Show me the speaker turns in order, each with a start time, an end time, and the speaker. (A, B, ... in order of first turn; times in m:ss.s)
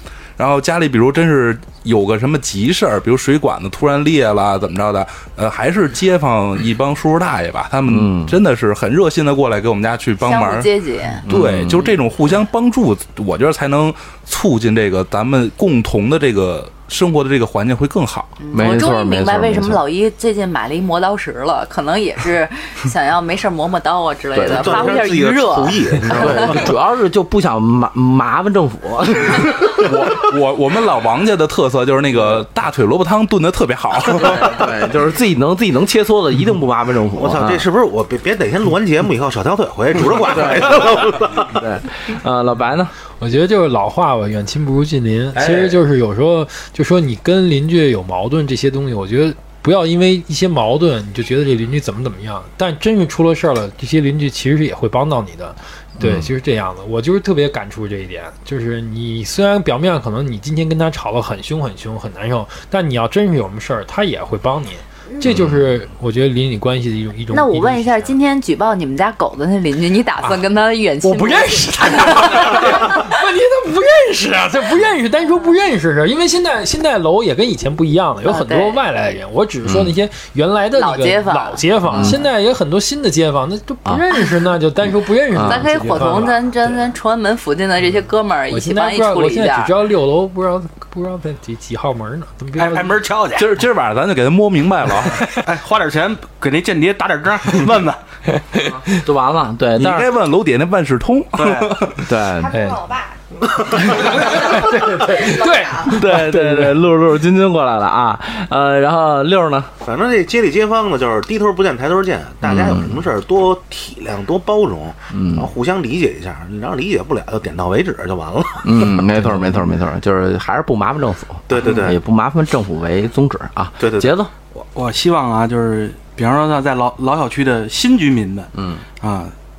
0:00.4-0:10.7 A
0:07.9-0:08.4 B
0:10.2-0:11.2 C
0:11.2-0:18.4 A
0:11.3-0:11.9 B
0:18.4-0:26.7 C
0:18.5-0:19.8 B
0:24.3-0:25.0 B
0:24.4-0:26.7 D
0:26.1-0:29.9 B
0:29.6-0:34.8 A
0:34.2-0:37.7 B
0:37.2-0:41.6 D
0:40.0-0:42.9 B
0:43.2-1:08.1 E
0:45.4-0:45.8 B
0:56.0-0:56.3 B
1:07.3-1:13.1 C
1:11.0-1:26.8 E
1:18.2-1:18.8 C
1:19.7-1:20.0 B
1:20.7-1:21.6 C
1:21.9-1:22.2 B
1:25.3-1:25.7 B
1:25.4-1:29.7 C
1:28.5-1:33.0 E
1:32.6-1:33.6 F
1:33.4-1:35.4 A
1:35.4-1:38.0 F
1:38.8-1:40.1 B
1:39.8-1:42.1 A
1:41.4-1:41.9 F
1:42.0-1:42.7 B
1:42.3-1:43.2 C
1:42.5-1:42.8 E
1:43.8-1:46.8 E
1:44.8-1:45.8 C
1:45.8-1:49.7 B
1:49.8-1:58.9 D
1:52.4-1:53.0 B
1:55.1-1:55.5 B
1:58.6-2:04.3 B
2:01.5-2:02.0 D
2:03.8-2:04.2 D
2:04.6-2:09.3 F
2:08.6-2:08.8 B